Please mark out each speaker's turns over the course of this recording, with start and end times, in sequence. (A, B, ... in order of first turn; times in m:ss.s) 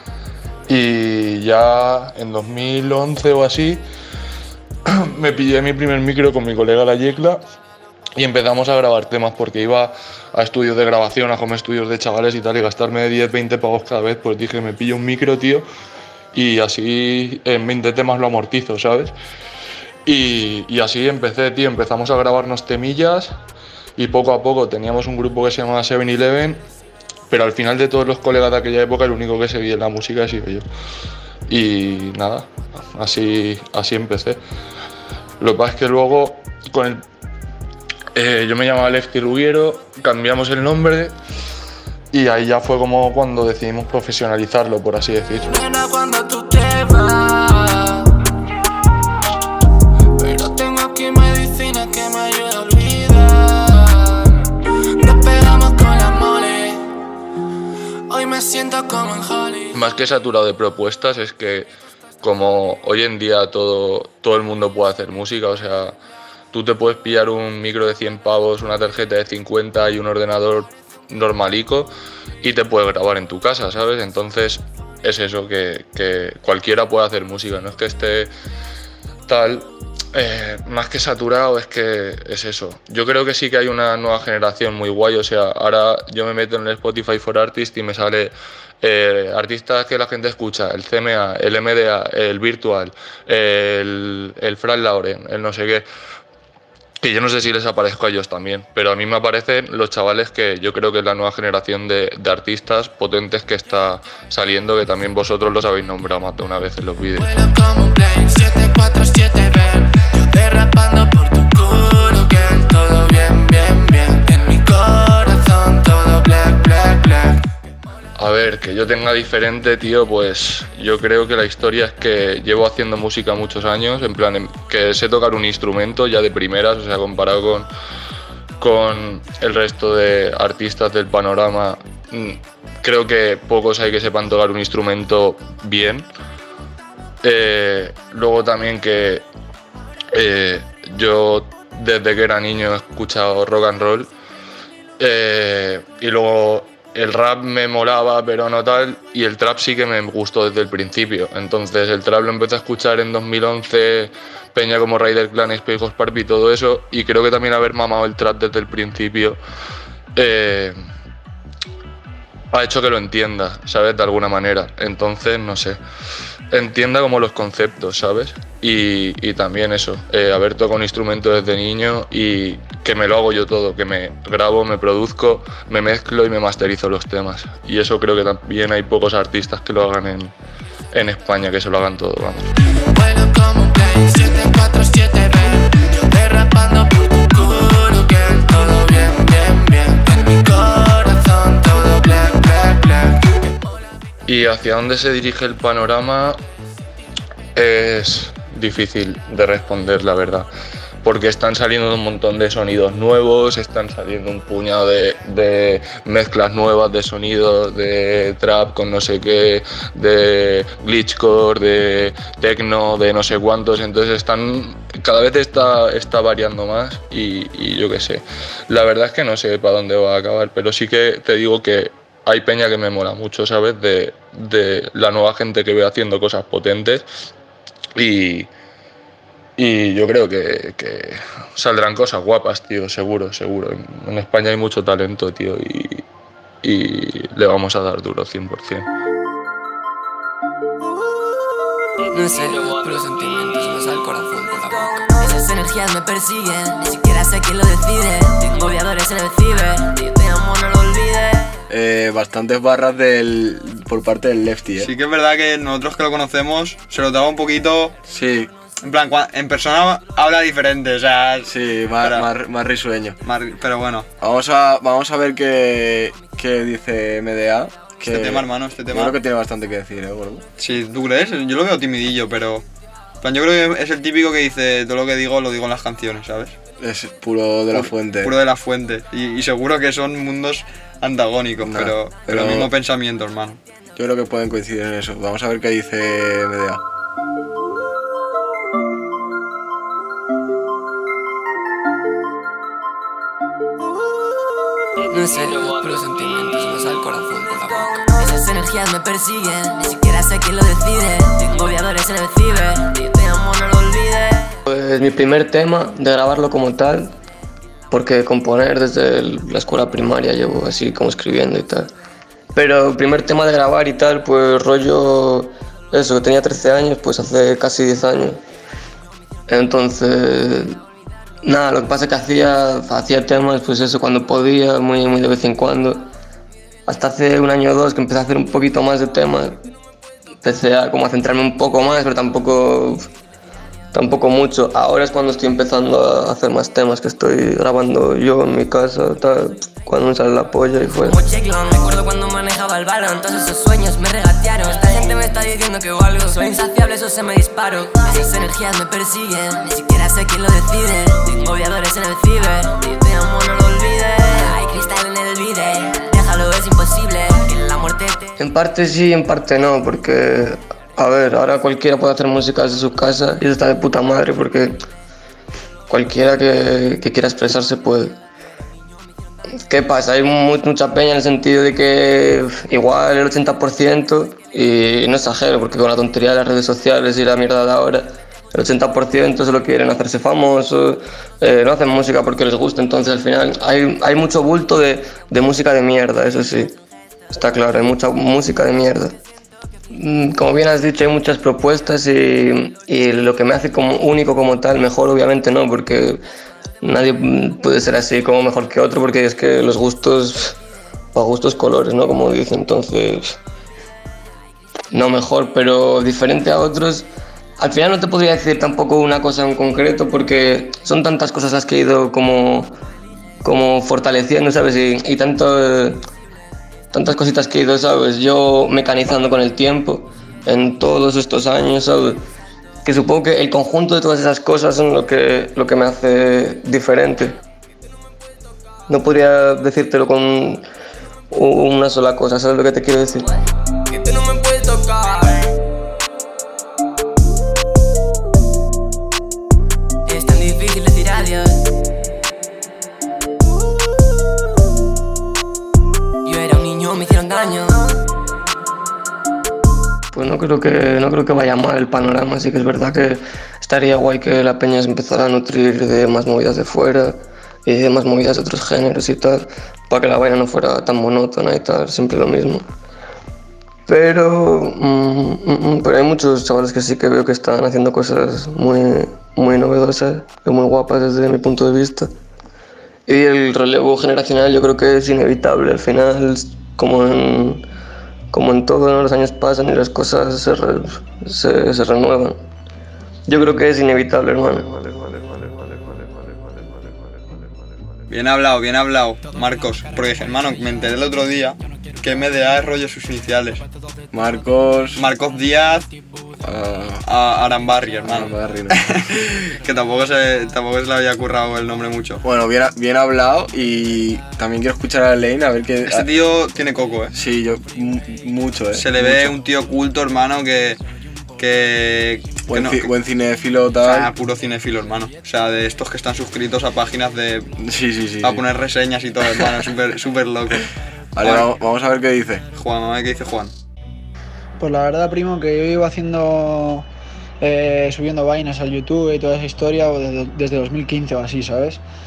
0:00.7-0:03.8 A
0:04.8-0:07.4 A
0:08.2-0:15.6 A
0:16.3-0:19.1 A
0:20.0-0:23.4 A
0:24.0-0:26.6 A
0:27.3-0:30.6 A
0:31.5-0:34.4 A
0:35.4-0:37.0 A
0:38.1-0:41.1 A
0:42.1-0:45.5 A
0:45.4-0:48.1 B
0:50.2-0:54.3 B
0:55.0-0:56.8 B
0:58.1-0:59.8 B
0:59.7-1:01.7 A
1:02.2-1:06.0 A
1:06.5-1:18.3 A
1:19.2-1:35.8 A
1:37.0-1:47.3 A
1:47.1-1:57.4 B
1:58.2-2:07.7 A
2:08.6-2:16.1 A
2:17.2-2:19.2 A
2:20.1-2:24.1 A
2:25.0-2:39.4 A
2:40.1-2:40.8 A
2:42.5-2:45.8 A
2:46.5-3:00.3 A
3:00.9-3:02.5 A
3:02.9-3:13.2 B
3:14.2-3:16.4 A
3:17.5-3:20.5 A
3:21.0-3:47.0 A
3:48.0-3:48.5 A
3:49.6-3:56.0 A
3:56.6-3:58.8 A
4:02.1-4:11.5 C
4:11.7-4:14.9 D
4:14.8-4:17.9 E
4:18.1-4:18.5 D
4:18.8-4:22.3 E
4:21.4-4:23.2 D
4:23.2-4:24.1 E
4:24.2-4:30.4 D
4:28.0-4:29.2 E
4:30.6-4:32.6 E
4:33.2-4:36.6 E
4:36.8-4:38.3 D
4:37.7-4:43.6 E
4:41.6-4:42.7 D
4:44.0-4:46.8 D
4:55.1-5:04.6 C
5:04.7-5:07.1 F
5:07.9-5:11.9 F
5:12.5-5:18.4 F
5:19.5-5:20.8 F
5:21.4-5:26.1 F
5:26.9-5:29.6 F
5:30.4-5:33.1 F
5:33.9-5:41.2 F
5:41.0-5:58.3 C
5:58.4-6:04.8 F
6:05.9-6:08.2 F
6:09.7-6:26.8 F
6:27.3-6:29.2 F
6:29.9-6:36.2 F
6:36.8-6:40.6 F
6:41.1-6:43.4 F
6:44.9-6:47.1 F
6:47.6-6:52.7 F
6:53.4-6:56.0 F
6:56.9-7:02.2 F
7:02.8-7:07.4 F
7:08.9-7:10.6 F
7:11.3-7:13.3 F
7:13.9-7:15.4 C
7:20.0-7:21.6 C
7:26.2-7:27.8 C
7:30.1-7:42.7 F
7:43.9-7:52.1 F
7:53.1-7:57.6 F
7:58.3-8:02.4 F
8:03.3-8:04.9 F
8:08.1-8:13.6 E
8:14.1-8:15.0 D
8:15.0-8:15.9 E
8:16.4-8:17.0 D
8:17.0-8:22.2 E
8:18.1-8:19.3 D
8:22.2-8:26.1 D
8:25.8-8:27.1 E
8:27.1-8:29.4 D
8:28.7-8:30.8 E
8:31.4-8:32.9 E
8:32.5-8:34.1 D
8:33.8-8:37.5 E
8:37.6-8:38.4 D
8:38.2-8:40.7 E
8:41.2-8:42.4 D
8:41.2-8:41.5 E
8:42.5-8:43.5 E
8:44.6-8:46.8 G
8:47.4-8:51.8 G